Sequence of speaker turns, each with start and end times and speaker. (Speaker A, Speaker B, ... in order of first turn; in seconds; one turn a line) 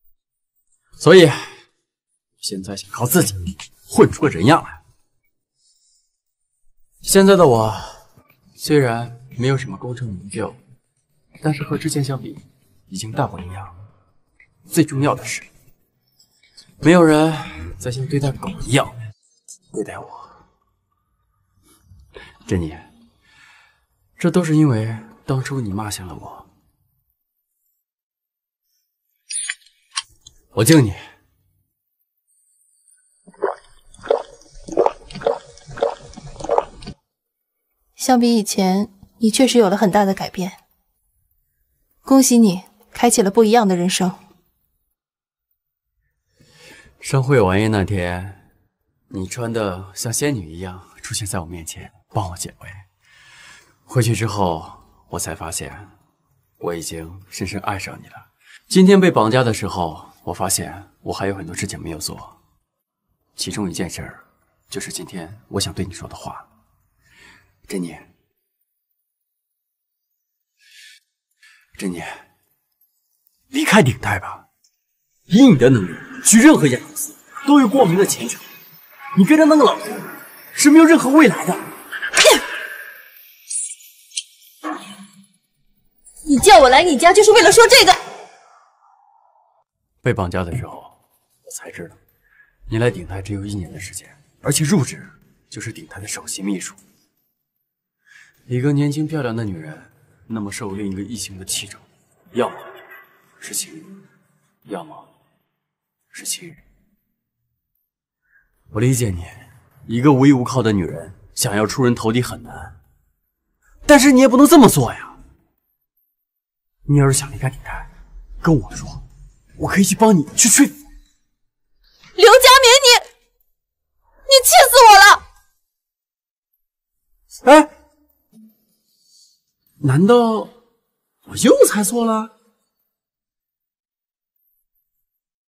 Speaker A: 1.0-1.6
Speaker A: 2.4-4.8
Speaker A: 7.0-8.1
Speaker A: 8.6-10.6
Speaker A: 11.4-13.8
Speaker A: 14.7-15.5
Speaker A: 16.8-18.9
Speaker A: 19.7-20.4
Speaker A: 22.4-22.9
Speaker A: 24.2-26.5
Speaker A: 30.5-31.0
Speaker B: 38.0-40.6
Speaker B: 42.0-44.2
Speaker A: 47.0-48.5
Speaker A: 49.1-52.8
Speaker A: 53.9-55.9
Speaker A: 56.6-62.4
Speaker A: 63.4-66.5
Speaker A: 67.7-68.1
Speaker A: 71.8-72.2
Speaker A: 73.5-74.4
Speaker A: 75.3-78.5
Speaker A: 79.1-81.7
Speaker B: 86.3-88.0
Speaker A: 90.0-92.0
Speaker A: 92.7-96.8
Speaker A: 98.5-102.8
Speaker A: 103.4-104.0
Speaker A: 104.7-105.1
Speaker A: 106.1-106.6
Speaker A: 108.7-112.8
Speaker A: 113.8-115.2
Speaker A: 116.9-117.9
Speaker A: 118.4-119.0
Speaker A: 119.6-120.8
Speaker B: 122.2-123.1
Speaker B: 124.3-125.2
Speaker A: 127.4-127.7
Speaker A: 129.8-130.5
Speaker A: 131.3-132.3